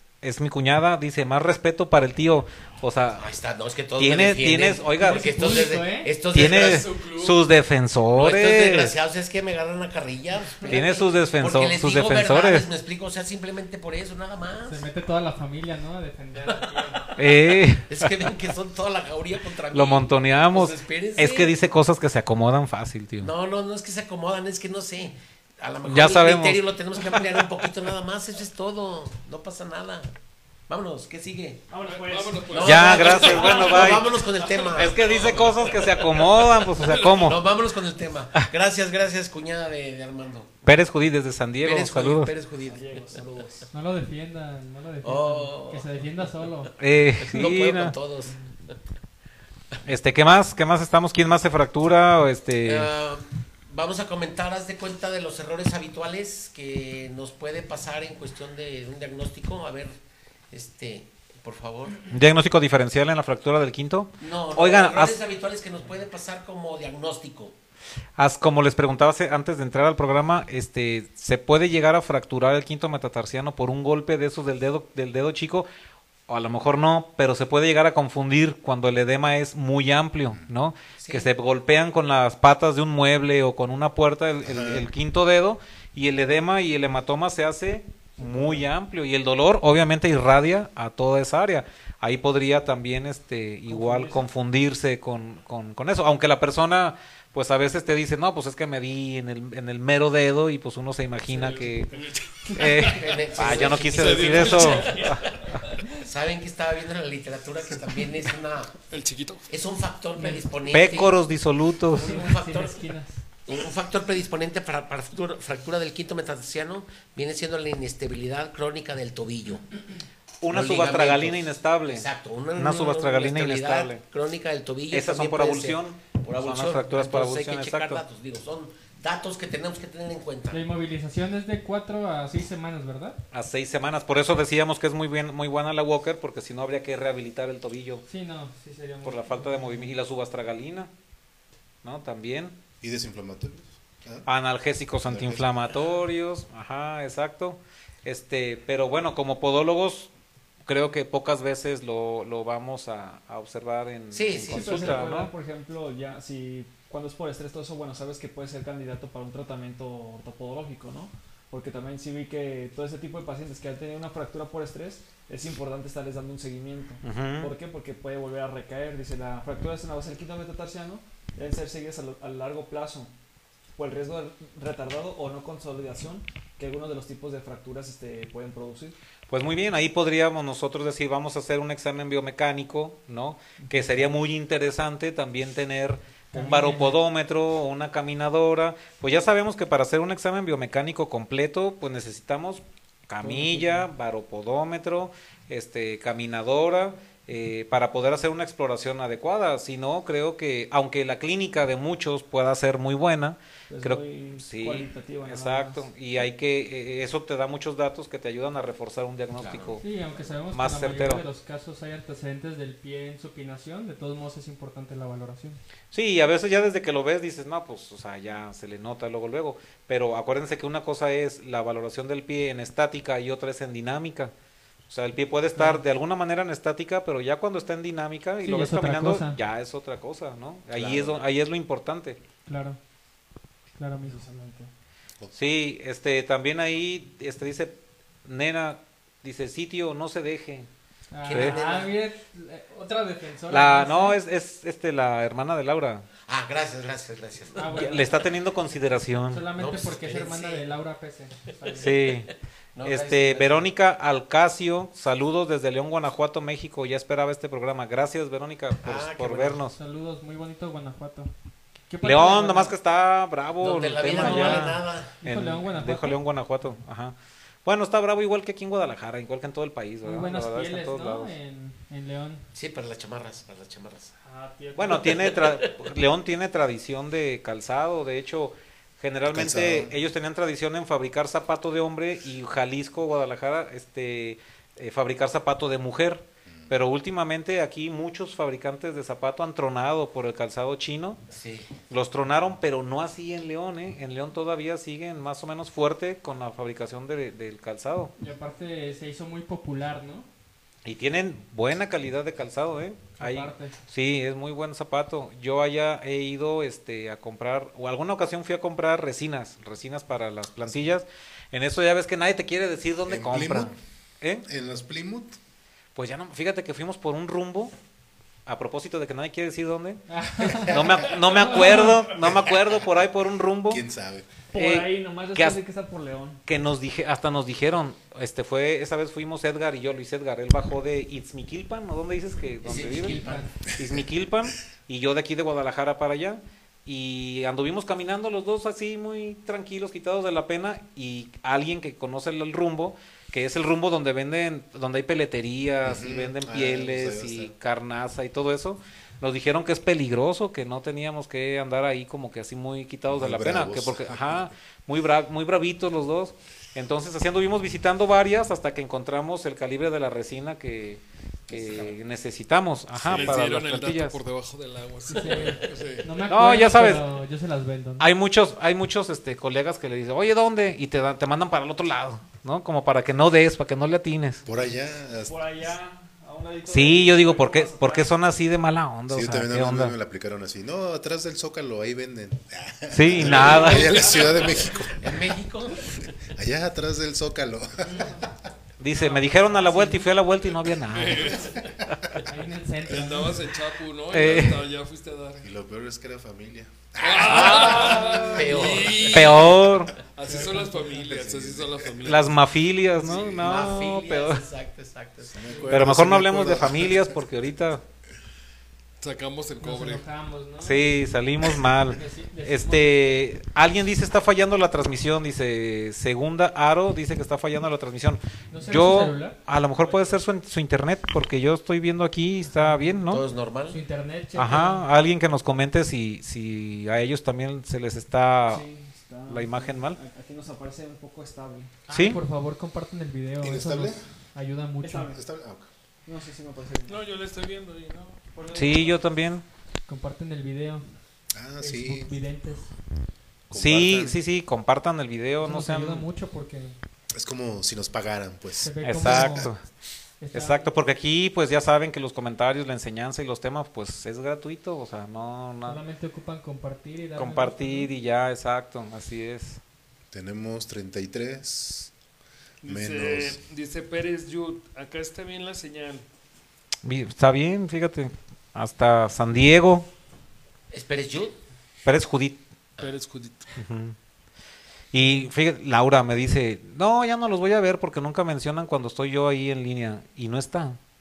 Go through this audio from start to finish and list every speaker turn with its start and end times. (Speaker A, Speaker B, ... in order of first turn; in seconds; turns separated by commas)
Speaker A: 0.2-3.3, Speaker B: 3.2-7.0, Speaker A: 4.0-5.7, Speaker C: 5.0-6.2, Speaker A: 6.3-8.9, Speaker D: 6.3-7.4, Speaker B: 8.1-14.9, Speaker A: 10.6-12.7, Speaker C: 14.7-17.1, Speaker B: 16.4-17.1, Speaker A: 17.2-18.3, Speaker B: 17.9-21.5, Speaker A: 19.7-23.3, Speaker B: 23.2-30.1, Speaker A: 25.9-26.6, Speaker A: 27.2-27.4, Speaker B: 30.7-31.6, Speaker E: 31.7-33.9, Speaker D: 31.8-34.4, Speaker B: 32.5-40.6, Speaker A: 32.6-34.1, Speaker A: 34.7-37.4, Speaker D: 35.0-35.9, Speaker D: 36.8-37.1, Speaker A: 40.6-42.3, Speaker B: 41.6-43.0, Speaker E: 42.6-43.7, Speaker C: 43.7-46.7, Speaker B: 45.0-45.9, Speaker A: 46.8-48.0, Speaker B: 47.2-48.8, Speaker A: 49.9-52.9, Speaker B: 52.6-59.9, Speaker B: 60.5-62.0, Speaker A: 62.1-65.2, Speaker B: 64.2-67.6, Speaker A: 68.2-75.7, Speaker A: 76.3-101.9, Speaker B: 81.0-81.3, Speaker F: 84.4-84.9, Speaker E: 88.2-88.6, Speaker E: 93.7-94.2, Speaker D: 101.3-105.8, Speaker A: 102.5-105.2, Speaker B: 102.7-108.8, Speaker D: 108.9-109.5, Speaker B: 109.5-111.2, Speaker C: 110.2-110.5, Speaker A: 110.7-112.2, Speaker B: 111.9-112.8, Speaker C: 112.0-113.2, Speaker B: 113.5-119.8, Speaker A: 120.4-124.0, Speaker B: 120.5-130.7, Speaker A: 124.9-128.0, Speaker C: 130.5-133.2, Speaker A: 133.3-138.0, Speaker C: 138.1-139.9, Speaker A: 139.0-140.9, Speaker A: 141.8-142.6, Speaker F: 142.8-144.3, Speaker A: 144.3-150.1, Speaker F: 145.1-145.7, Speaker A: 150.7-155.3, Speaker B: 154.1-155.1, Speaker E: 154.5-173.1, Speaker A: 167.0-167.5, Speaker E: 173.8-179.0, Speaker A: 179.3-209.8, Speaker C: 186.3-187.0, Speaker E: 193.2-193.9, Speaker E: 203.7-205.9, Speaker B: 209.4-209.8, Speaker C: 209.8-215.6, Speaker A: 210.5-211.2, Speaker A: 215.9-224.3, Speaker A: 224.9-232.2, Speaker C: 225.6-225.8, Speaker C: 228.4-229.4, Speaker B: 230.7-231.2, Speaker C: 232.5-232.8, Speaker C: 233.8-234.2, Speaker E: 234.0-234.7, Speaker A: 235.3-240.7, Speaker C: 241.1-244.2, Speaker B: 241.3-241.9, Speaker A: 241.3-241.6, Speaker A: 243.5-246.1, Speaker B: 246.3-248.2, Speaker C: 247.6-248.2, Speaker A: 247.7-249.4, Speaker C: 249.3-252.1, Speaker B: 249.6-250.7, Speaker B: 251.7-252.1, Speaker A: 251.8-252.3, Speaker B: 252.8-253.7, Speaker A: 252.8-259.8, Speaker B: 258.8-259.6, Speaker C: 259.7-261.3, Speaker C: 261.9-262.8, Speaker A: 262.0-271.3, Speaker B: 263.6-265.2, Speaker C: 264.1-266.2, Speaker C: 270.0-272.5, Speaker B: 272.5-274.1, Speaker C: 274.3-274.9, Speaker A: 274.8-291.2, Speaker B: 274.9-275.9, Speaker F: 279.3-279.9, Speaker F: 286.5-286.8, Speaker B: 291.3-291.7, Speaker A: 291.9-298.1, Speaker C: 298.2-300.3, Speaker A: 300.9-314.4, Speaker C: 303.2-303.8, Speaker F: 313.1-313.8, Speaker F: 314.5-315.4, Speaker A: 315.9-317.7, Speaker A: 318.5-323.8, Speaker C: 320.1-322.1, Speaker F: 323.7-324.3, Speaker E: 324.5-326.4, Speaker A: 324.6-325.6, Speaker A: 326.4-333.2, Speaker B: 332.6-333.5, Speaker C: 332.9-333.6, Speaker A: 333.7-364.2, Speaker F: 333.8-334.1, Speaker F: 345.8-347.5, Speaker F: 353.1-354.5, Speaker B: 361.5-362.0, Speaker F: 362.9-363.4, Speaker D: 363.1-366.1, Speaker C: 365.1-368.1, Speaker A: 366.3-367.1, Speaker A: 368.0-374.4, Speaker F: 374.5-375.4, Speaker E: 375.2-378.1, Speaker A: 376.7-379.9, Speaker F: 379.1-385.3, Speaker A: 382.9-384.1, Speaker D: 383.3-384.6, Speaker B: 385.0-386.1, Speaker F: 386.3-388.1, Speaker A: 388.8-391.5, Speaker C: 388.9-390.0, Speaker D: 390.9-391.6, Speaker A: 392.0-392.2, Speaker C: 392.3-393.4, Speaker D: 392.9-395.5, Speaker A: 394.1-394.6, Speaker F: 395.4-398.1, Speaker D: 397.0-402.3, Speaker B: 397.1-399.3, Speaker A: 399.0-400.0, Speaker C: 400.3-401.0, Speaker F: 401.0-402.2, Speaker A: 402.0-404.4, Speaker F: 402.9-403.7, Speaker B: 403.4-405.8, Speaker F: 405.3-407.2, Speaker A: 405.7-407.8, Speaker D: 409.0-410.0, Speaker C: 409.6-411.0, Speaker A: 410.6-423.2, Speaker C: 411.9-413.2, Speaker C: 418.5-420.2, Speaker C: 422.4-423.0, Speaker B: 423.1-423.8, Speaker C: 423.7-424.9, Speaker A: 424.4-428.6, Speaker E: 428.5-431.7, Speaker A: 429.3-430.0, Speaker C: 431.9-435.1, Speaker A: 431.9-432.2, Speaker F: 433.4-434.0, Speaker E: 434.8-435.2, Speaker F: 435.1-435.7, Speaker E: 436.1-437.0, Speaker D: 436.9-438.2, Speaker E: 438.3-439.1, Speaker A: 438.5-439.4, Speaker C: 439.9-440.9, Speaker F: 441.3-442.1, Speaker C: 441.6-442.7, Speaker F: 443.5-444.2, Speaker A: 443.5-446.1, Speaker C: 445.4-446.8, Speaker F: 447.1-449.5, Speaker C: 448.6-449.5, Speaker A: 448.8-449.7, Speaker C: 450.2-450.7, Speaker A: 450.3-455.8, Speaker C: 455.6-457.9, Speaker A: 457.2-459.6, Speaker F: 460.1-461.9, Speaker D: 462.6-466.0, Speaker F: 462.6-463.4, Speaker A: 466.8-469.9, Speaker B: 470.7-471.4, Speaker A: 471.9-472.4, Speaker D: 472.8-473.5, Speaker A: 473.6-473.9, Speaker A: 474.9-480.8